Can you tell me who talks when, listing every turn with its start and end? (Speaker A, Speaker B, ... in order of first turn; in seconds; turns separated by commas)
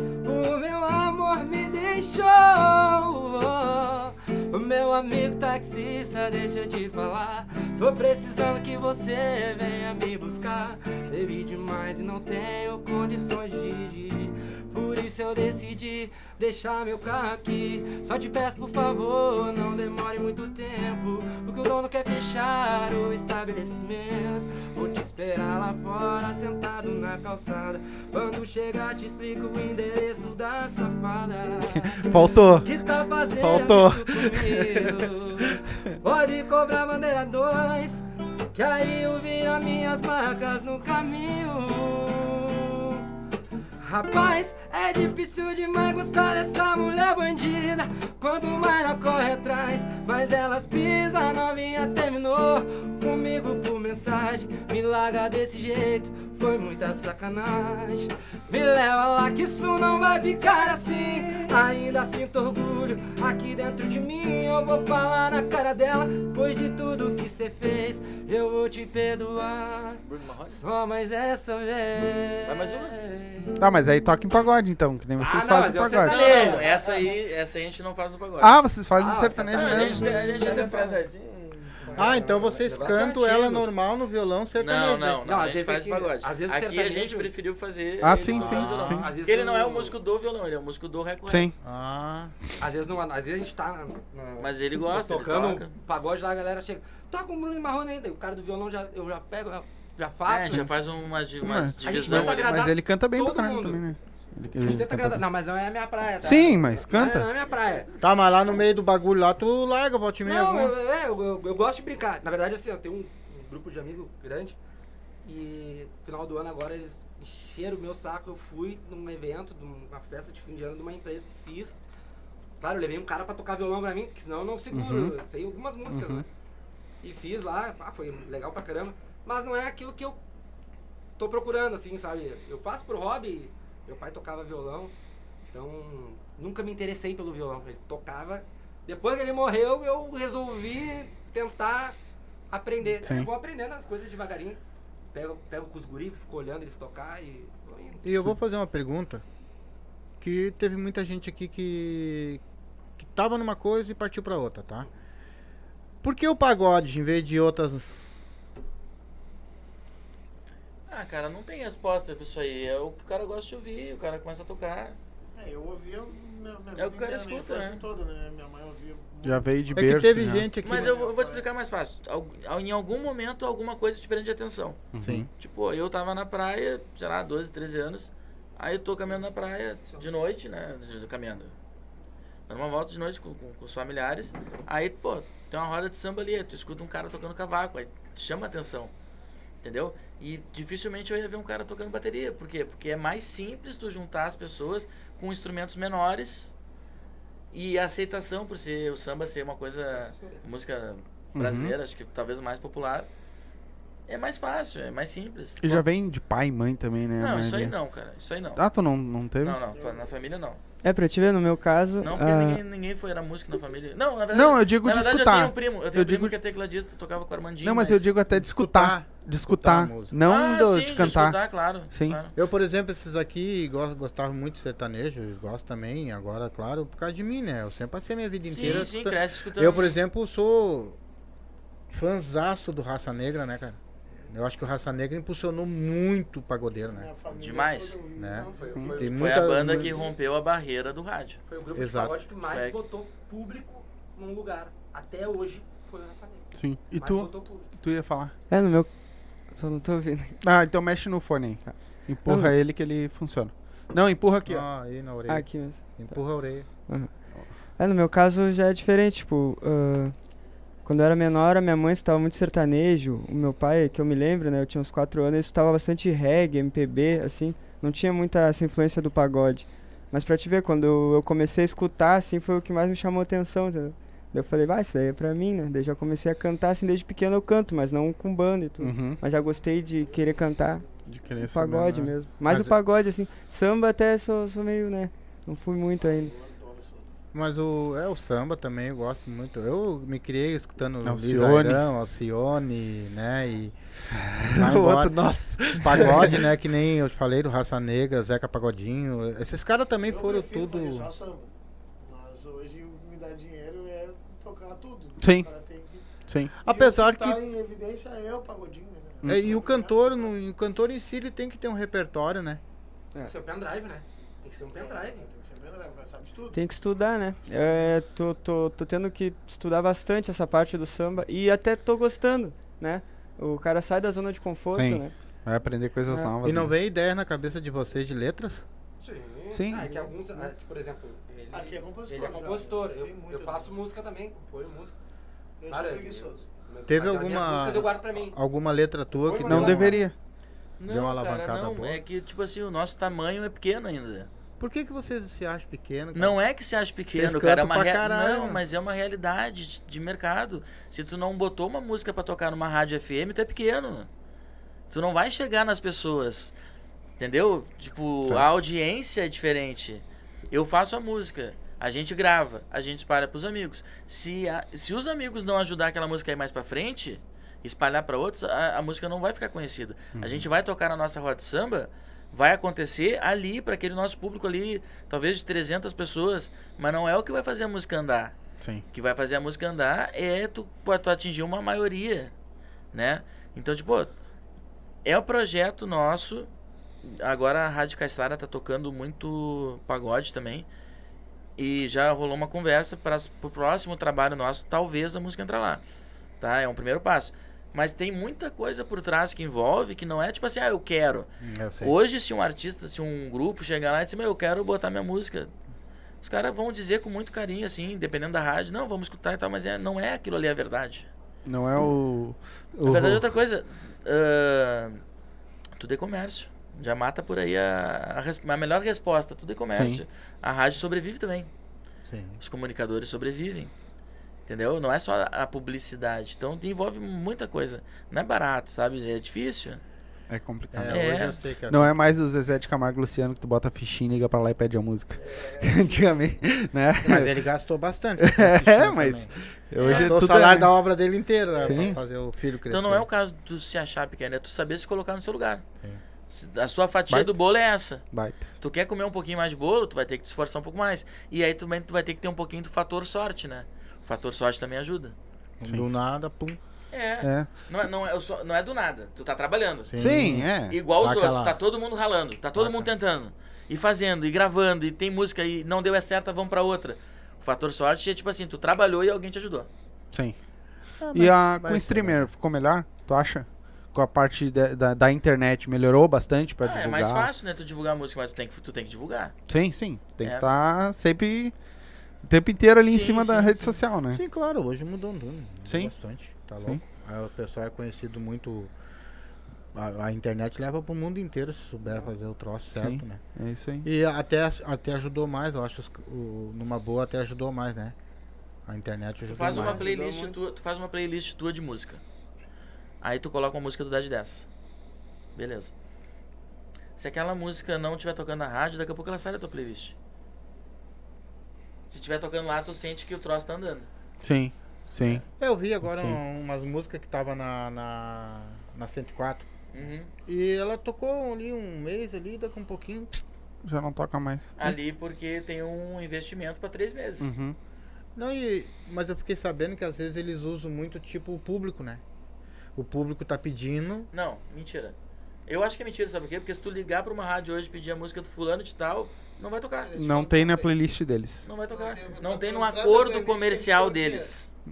Speaker A: 0.2-43.1, Speaker B: 31.6-32.7, Speaker B: 33.4-35.1, Speaker A: 43.8-73.6, Speaker C: 70.0-70.6, Speaker C: 72.4-73.0, Speaker B: 73.6-76.2, Speaker A: 75.2-76.8, Speaker C: 76.0-78.6, Speaker D: 76.0-77.2, Speaker B: 78.4-80.1, Speaker A: 79.0-80.2, Speaker C: 79.5-81.0, Speaker E: 80.0-82.5, Speaker A: 81.8-83.7, Speaker F: 82.0-85.2, Speaker C: 84.5-91.5, Speaker A: 85.2-87.3, Speaker B: 88.0-89.0, Speaker F: 88.1-89.1, Speaker A: 88.4-89.9, Speaker B: 91.2-91.5, Speaker F: 91.6-92.4, Speaker A: 92.6-100.7, Speaker C: 94.4-95.7, Speaker C: 100.2-102.6, Speaker B: 101.4-105.2, Speaker A: 101.8-103.9, Speaker A: 104.6-107.9, Speaker B: 106.2-107.3, Speaker F: 108.0-110.7, Speaker A: 110.2-114.6, Speaker A: 115.2-121.8, Speaker A: 122.6-126.2, Speaker B: 124.7-125.1, Speaker B: 125.9-126.2, Speaker A: 127.0-130.2, Speaker A: 131.2-134.9, Speaker A: 135.5-141.9, Speaker A: 142.5-144.6, Speaker B: 143.0-143.3, Speaker A: 145.1-148.2, Speaker F: 148.0-149.2, Speaker F: 150.2-152.4, Speaker F: 153.0-154.9, Speaker F: 156.0-158.1, Speaker C: 160.9-165.0, Speaker D: 165.3-169.8, Speaker C: 166.8-167.8, Speaker B: 169.2-170.5, Speaker F: 169.7-170.9, Speaker D: 170.6-171.5, Speaker C: 170.6-174.8, Speaker B: 174.9-175.3, Speaker F: 175.0-175.3, Speaker C: 175.4-181.5, Speaker C: 182.5-188.9, Speaker C: 189.6-196.5, Speaker C: 197.5-203.1, Speaker D: 199.9-200.4, Speaker B: 201.3-201.7, Speaker C: 204.1-205.8, Speaker B: 205.6-207.8, Speaker C: 207.2-208.6, Speaker B: 208.5-209.6, Speaker C: 209.4-210.6, Speaker D: 209.7-210.1, Speaker E: 210.8-212.6, Speaker C: 212.0-218.0, Speaker B: 214.3-216.3, Speaker B: 217.6-222.2, Speaker F: 218.3-220.2, Speaker C: 220.2-222.3, Speaker F: 222.3-231.0, Speaker C: 228.4-229.9, Speaker B: 228.6-228.9, Speaker F: 231.9-237.1, Speaker D: 236.8-240.1, Speaker C: 237.3-238.0, Speaker F: 238.2-239.9, Speaker A: 238.4-239.6, Speaker C: 239.1-241.4, Speaker A: 241.5-247.7, Speaker F: 241.7-242.1, Speaker C: 242.5-242.8, Speaker B: 246.5-248.3, Speaker E: 248.5-250.4, Speaker B: 250.4-254.7, Speaker E: 252.2-252.6, Speaker F: 254.4-256.7, Speaker E: 255.3-256.3, Speaker E: 256.9-280.9, Speaker B: 278.8-279.2, Speaker B: 281.1-282.7, Speaker E: 281.4-286.3, Speaker D: 286.0-287.1, Speaker F: 287.3-301.1, Speaker B: 291.0-291.8, Speaker B: 294.1-296.5, Speaker D: 300.0-310.4, Speaker B: 305.2-305.5, Speaker F: 306.6-307.4, Speaker F: 309.2-312.6, Speaker A: 313.2-315.3, Speaker D: 314.7-316.6, Speaker E: 316.5-325.1, Speaker B: 324.7-326.7, Speaker E: 326.1-326.3, Speaker F: 326.4-328.6, Speaker A: 329.0-334.9, Speaker B: 329.5-329.9, Speaker D: 331.5-333.8, Speaker D: 335.6-336.4, Speaker A: 335.7-338.4, Speaker F: 336.9-340.0, Speaker A: 339.2-340.0, Speaker B: 339.4-340.1, Speaker C: 340.8-344.3, Speaker F: 340.9-342.0, Speaker F: 344.6-346.4, Speaker C: 346.1-354.1, Speaker F: 347.1-348.6, Speaker C: 354.9-356.5, Speaker C: 357.2-378.3, Speaker B: 370.1-370.4, Speaker C: 378.9-382.3, Speaker C: 382.9-384.1, Speaker C: 385.0-386.5, Speaker C: 387.0-390.7, Speaker C: 391.6-395.8, Speaker C: 396.4-405.5, Speaker F: 401.4-401.9, Speaker C: 406.2-411.1, Speaker B: 411.4-413.2, Speaker C: 412.8-415.0, Speaker C: 415.8-421.5, Speaker B: 419.7-420.0, Speaker F: 422.1-422.4, Speaker C: 422.4-423.7, Speaker C: 424.5-429.8, Speaker B: 430.3-437.4, Speaker F: 430.7-431.9, Speaker C: 430.9-431.4, Speaker D: 435.4-435.6, Speaker F: 437.0-443.1, Speaker B: 438.2-440.7, Speaker C: 439.8-440.1, Speaker D: 441.6-441.9, Speaker B: 441.6-442.0, Speaker C: 442.6-445.6, Speaker C: 446.3-448.1, Speaker B: 447.1-447.4, Speaker B: 448.0-448.4, Speaker C: 448.6-455.1, Speaker F: 455.6-456.6, Speaker C: 456.9-469.7, Speaker B: 457.2-457.5, Speaker F: 459.9-461.6, Speaker B: 460.0-460.8, Speaker F: 462.5-462.9, Speaker F: 471.0-472.3, Speaker B: 471.1-477.3, Speaker C: 476.6-479.3, Speaker B: 479.5-481.5, Speaker C: 480.2-480.4, Speaker B: 482.2-484.2, Speaker C: 482.9-483.8, Speaker F: 484.1-488.7, Speaker B: 485.6-485.9, Speaker F: 489.7-493.2, Speaker B: 492.7-493.9, Speaker F: 493.8-497.9, Speaker F: 498.7-499.9, Speaker C: 499.3-502.0, Speaker E: 499.4-500.3, Speaker C: 503.0-504.4, Speaker C: 505.4-505.7, Speaker C: 507.0-509.9, Speaker C: 511.9-513.9, Speaker B: 514.2-515.2, Speaker F: 515.1-519.5, Speaker B: 515.8-516.2, Speaker C: 519.7-520.1, Speaker F: 520.2-523.2, Speaker B: 523.6-524.8, Speaker C: 524.6-527.3, Speaker B: 527.2-527.6, Speaker F: 528.1-532.0, Speaker F: 532.8-534.1, Speaker C: 534.1-534.9, Speaker C: 535.5-539.9, Speaker D: 539.8-540.7, Speaker B: 539.9-541.5, Speaker C: 541.4-544.5, Speaker D: 541.7-544.3